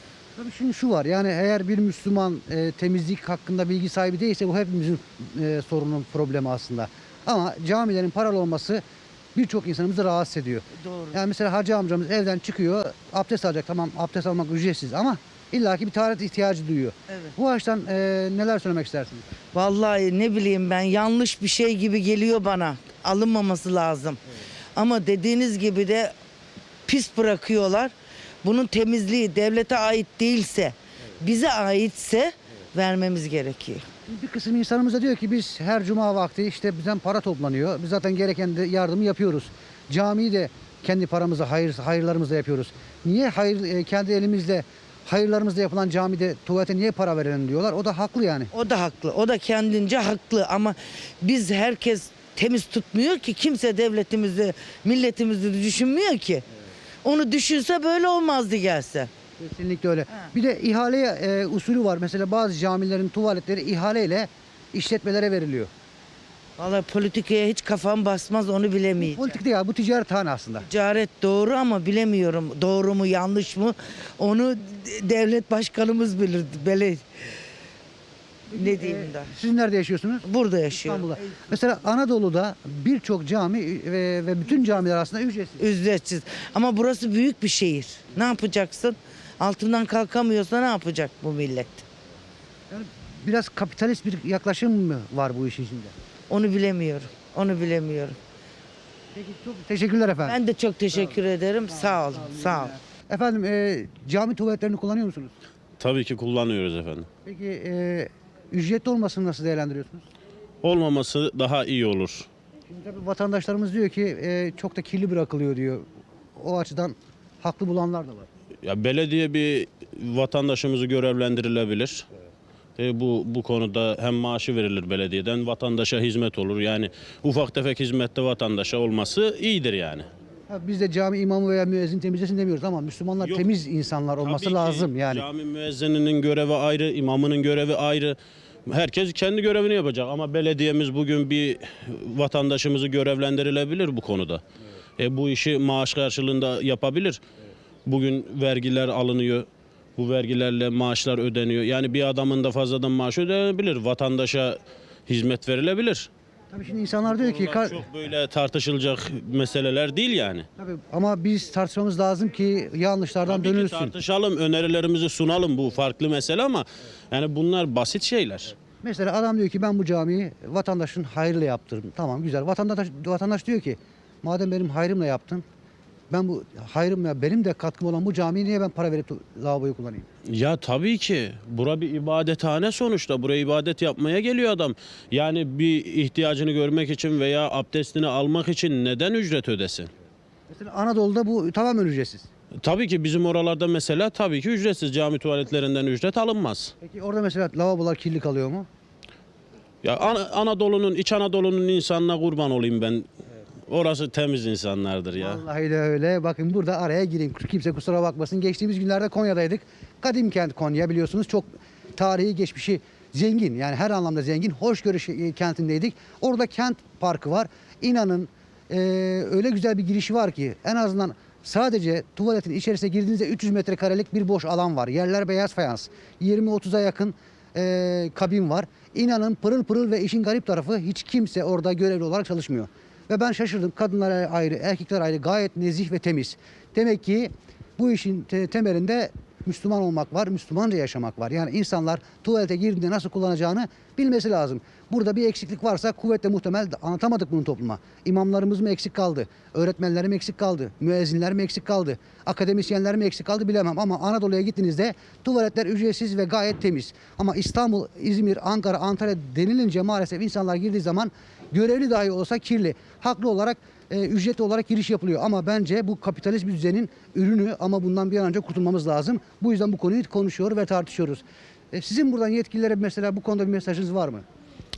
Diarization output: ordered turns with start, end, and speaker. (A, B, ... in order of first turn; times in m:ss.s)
0:00.4-0:08.8 A
0:09.3-0:19.3 A
0:10.8-0:11.2 B
0:19.5-0:24.2 B
0:24.7-0:26.1 B
0:26.8-0:33.8 B
0:34.1-0:48.5 A
0:48.5-0:56.4 B
0:57.0-0:59.1 B
0:59.4-1:05.7 A
1:06.6-1:09.4 B
1:09.0-1:10.6 A
1:10.6-1:17.0 B
1:18.5-1:19.3 B
1:18.5-1:25.6 A
1:20.2-1:21.2 B
1:25.6-1:31.8 B
1:32.7-1:35.9 A
1:36.3-1:38.2 B
1:39.1-1:40.4 A
1:40.2-1:42.7 B
1:41.7-1:45.3 A
1:45.8-1:47.1 C
1:47.2-1:50.0 A
1:50.6-1:52.3 C
1:52.7-1:58.3 A
1:58.6-2:02.0 C
2:02.8-2:10.1 C
2:10.5-2:15.2 A
2:14.2-2:18.2 C
2:18.7-2:24.4 C
2:25.0-2:27.2 C
2:27.8-2:36.1 C
2:36.5-2:37.8 A
2:37.1-2:40.5 C
2:40.6-2:43.9 A
2:43.3-2:48.5 C
2:48.8-2:55.4 A
2:56.1-3:00.0 A
3:00.3-3:09.9 C
3:10.5-3:12.3 A
3:12.6-3:16.7 C
3:16.8-3:18.7 A
3:19.8-3:23.1 C
3:23.7-3:25.4 C
3:25.2-4:34.2 A